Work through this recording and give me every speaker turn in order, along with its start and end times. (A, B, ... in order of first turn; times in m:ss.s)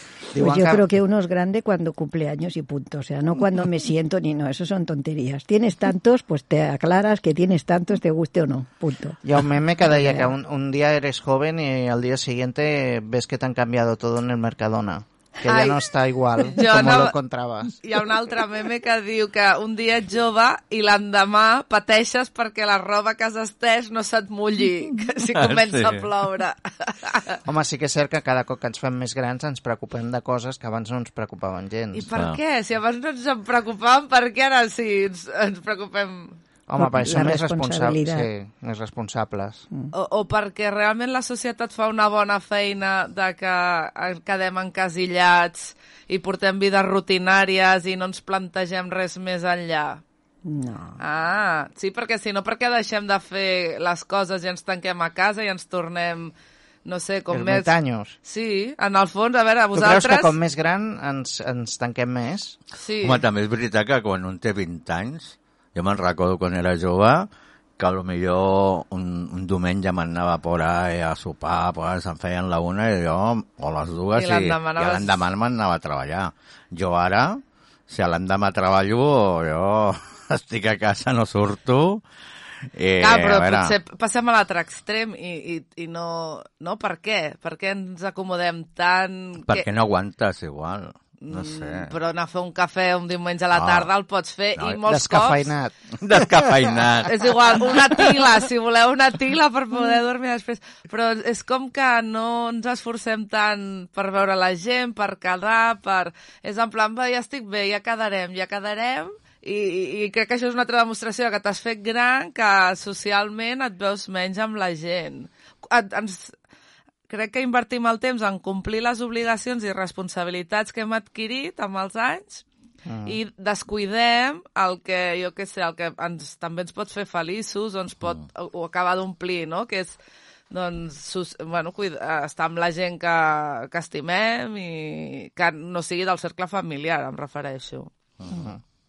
0:00.3-0:00.9 A
0:00.4-0:09.2 B
0:09.2-0:17.8 A
0:09.9-0:10.3 B
0:15.4-0:15.8 C
0:16.4-0:17.2 C
0:17.8-0:27.4 C
0:25.4-0:26.1 D
0:27.5-0:32.1 A
0:31.9-0:36.4 C
0:36.7-0:39.7 A
0:36.8-0:38.3 B
0:39.9-0:50.0 C
0:50.4-0:51.0 B
0:51.0-0:56.3 C
0:56.8-0:57.7 C
0:57.3-0:58.2 A
0:58.2-1:00.4 C
0:59.7-1:02.6 A
1:02.8-1:03.2 C
1:03.0-1:22.0 D
1:14.2-1:15.2 C
1:22.7-1:23.8 D
1:23.0-1:29.7 C
1:29.5-1:31.9 D
1:31.2-1:35.5 C
1:33.6-1:33.9 D
1:34.6-1:34.8 D
1:34.8-1:35.8 A
1:36.0-1:37.3 D
1:37.1-1:56.4 C
1:57.1-2:02.4 C
2:02.9-2:03.2 A
2:03.0-2:10.0 C
2:10.5-2:17.9 C
2:18.3-2:18.6 A